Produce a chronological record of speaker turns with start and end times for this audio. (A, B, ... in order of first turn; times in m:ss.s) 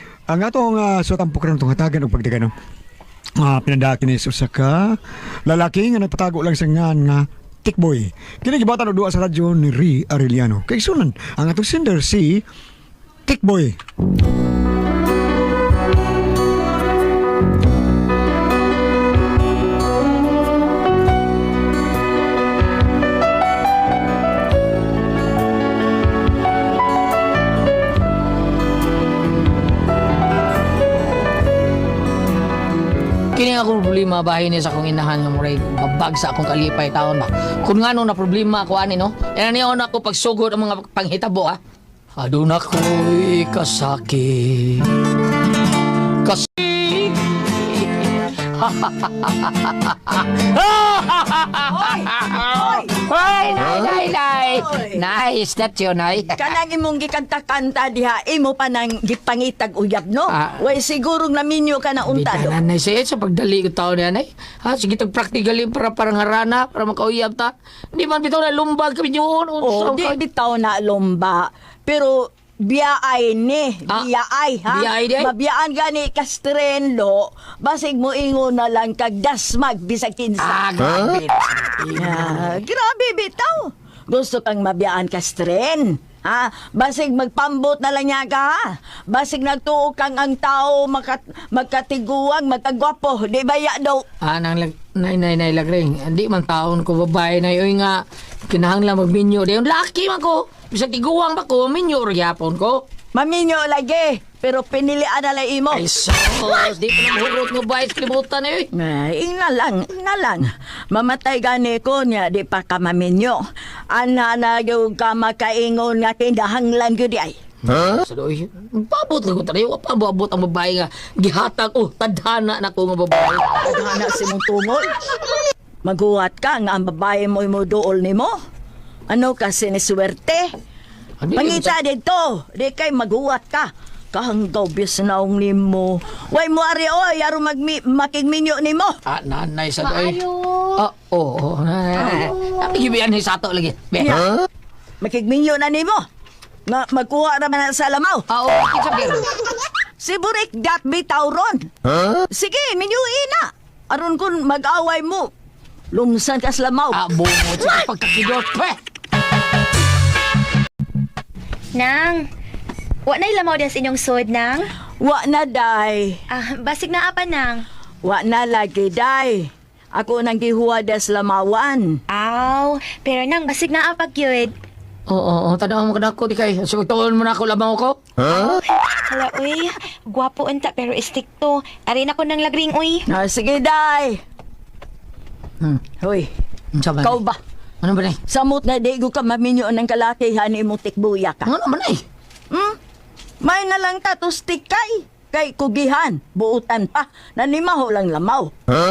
0:00.3-0:02.5 A
0:03.4-0:12.4 A
0:13.3-0:13.8 A
0:33.3-0:41.6 B
0:42.2-0:44.9 B
0:46.2-0:56.3 B
0:51.7-0:52.9 C
0:53.7-0:55.0 C
0:56.3-1:02.6 C
1:00.3-1:00.6 B
1:02.1-1:10.2 B
1:09.6-1:20.6 C
1:14.7-1:15.3 B
1:20.4-1:22.6 B
1:22.0-1:34.0 C
1:34.2-1:42.8 B
1:43.1-1:45.8 C
1:45.7-1:48.7 B
1:48.7-1:57.4 C
1:57.6-2:03.5 B
2:03.6-2:05.0 C
2:05.8-2:08.4 C
2:09.1-2:10.5 C
2:11.2-2:11.7 B
2:11.4-2:19.0 C
2:19.0-2:20.2 B
2:20.7-2:24.2 B
2:22.0-2:22.3 C
2:24.0-2:24.3 C
2:25.0-2:26.0 C
2:26.7-2:28.2 C
2:28.3-2:29.2 B
2:30.0-2:31.7 C
2:32.3-2:35.3 C
2:35.9-2:37.0 C
2:36.9-2:38.8 B
2:41.7-2:42.2 D
2:43.0-2:44.7 D
2:45.0-2:46.2 C
2:46.3-2:47.6 D
2:48.0-2:52.0 C
2:52.1-2:54.5 D
2:55.1-2:58.0 B
2:58.2-3:03.0 D
3:03.1-3:04.2 C
3:06.0-3:06.3 C
3:06.7-3:07.2 B
3:07.0-3:07.4 C
3:07.8-3:08.2 B
3:08.3-3:11.5 C
3:11.4-3:12.0 B
3:12.5-3:12.8 C
3:13.4-3:18.5 C